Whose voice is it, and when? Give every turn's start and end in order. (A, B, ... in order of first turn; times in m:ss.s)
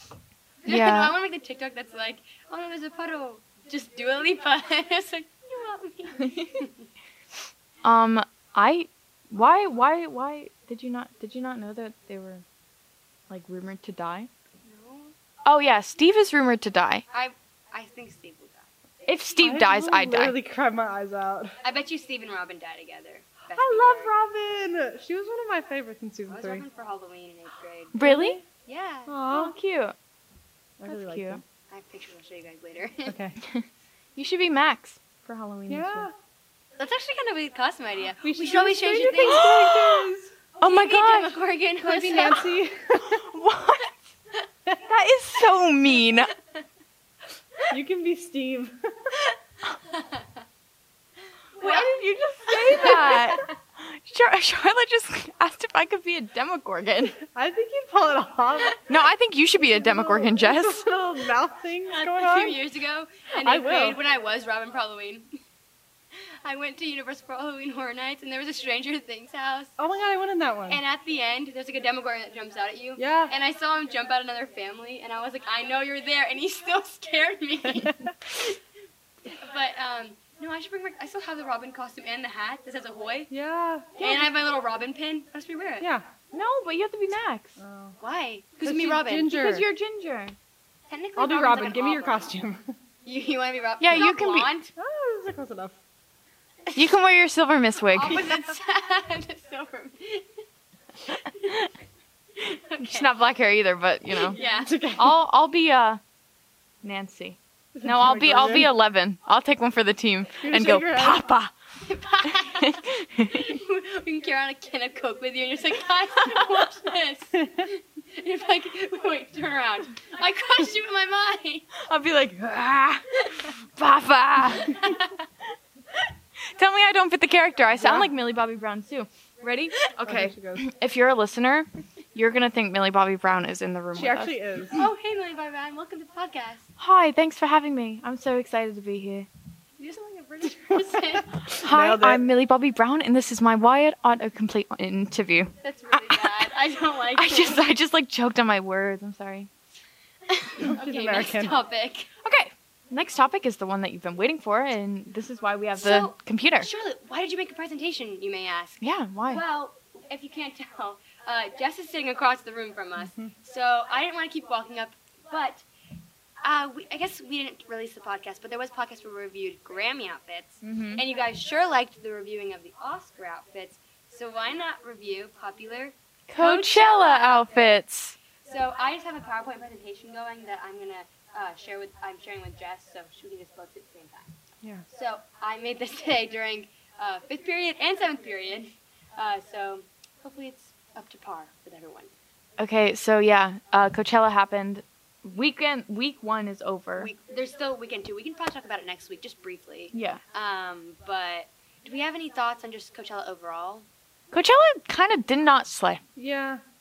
0:00.6-0:06.9 A
0:00.7-0:01.2 B
0:06.2-0:06.6 B
0:07.8-0:12.4 B
0:13.3-0:14.3 B
0:14.6-0:15.2 A
0:15.5-0:17.0 B
0:17.1-0:18.7 A
0:19.1-0:20.4 B
0:19.4-0:21.6 C
0:21.6-0:24.1 A
0:23.6-0:26.7 C
0:26.3-0:29.3 A
0:27.9-0:28.4 B
0:28.0-0:28.4 C
0:29.1-0:29.6 C
0:29.3-0:29.9 B
0:30.8-0:31.4 C
0:30.9-0:31.4 B
0:31.7-0:33.2 A
0:33.1-0:33.4 C
0:34.2-0:36.1 B
0:35.7-0:36.1 C
0:36.8-0:39.5 A
0:38.2-0:40.3 C
0:38.4-0:40.1 B
0:40.6-0:41.5 B
0:40.6-0:42.4 A
0:41.8-0:43.3 C
0:42.2-0:42.4 B
0:43.0-0:44.0 B
0:44.7-0:46.3 B
0:47.7-0:48.8 C
0:49.9-0:50.3 A
0:51.6-0:57.2 B
0:51.6-0:53.5 A
0:57.3-0:58.8 C
0:58.8-1:01.0 B
0:59.6-1:02.6 C
1:01.9-1:05.3 A
1:03.4-1:04.0 C
1:06.4-1:09.7 A
1:09.8-1:10.8 C
1:10.7-1:18.6 A
1:13.0-1:13.3 C
1:19.3-1:23.3 A
1:23.3-1:24.1 C
1:24.0-1:25.9 A
1:24.0-1:24.3 B
1:25.8-1:26.1 C
1:26.2-1:27.6 B
1:27.6-1:28.0 C
1:28.0-1:29.5 A
1:28.6-1:29.7 C
1:29.3-1:30.4 B
1:30.9-1:32.4 A
1:31.2-1:31.8 B
1:31.2-1:32.7 C
1:33.0-1:34.7 A
1:33.8-1:34.5 B
1:34.8-1:35.8 C
1:36.8-1:38.4 B
1:37.8-1:40.3 A
1:41.1-1:41.6 A
1:42.5-1:43.2 A
1:42.8-1:44.4 B
1:44.3-1:44.9 A
1:44.4-1:45.2 C
1:45.0-1:46.0 B
1:46.8-1:51.5 B
1:47.8-1:48.7 C
1:50.4-1:51.3 C
1:51.8-2:01.7 A
1:52.3-1:53.4 B
2:01.8-2:05.1 B
2:03.2-2:03.5 A
2:04.6-2:05.1 A
2:06.6-2:14.4 B
2:07.8-2:08.1 C
2:10.0-2:10.7 C
2:14.0-2:14.9 C
2:14.7-2:16.7 A
2:16.8-2:19.3 B
2:19.8-2:21.6 A
2:21.5-2:26.5 B
2:21.6-2:22.2 C
2:25.6-2:27.7 A
2:27.1-2:29.5 B
2:30.3-2:32.1 A
2:30.6-2:31.6 C
2:32.2-2:36.7 B
2:35.8-2:45.6 A
2:38.8-2:39.4 B
2:43.0-2:43.3 C
2:46.4-2:57.8 A
2:50.6-2:51.0 B
2:56.3-2:58.2 B
2:58.4-3:04.3 A
3:04.9-3:12.1 A
3:12.6-3:17.1 B
3:17.0-3:23.9 A
3:19.9-3:20.2 B
3:24.3-3:26.0 B
3:26.2-3:26.6 C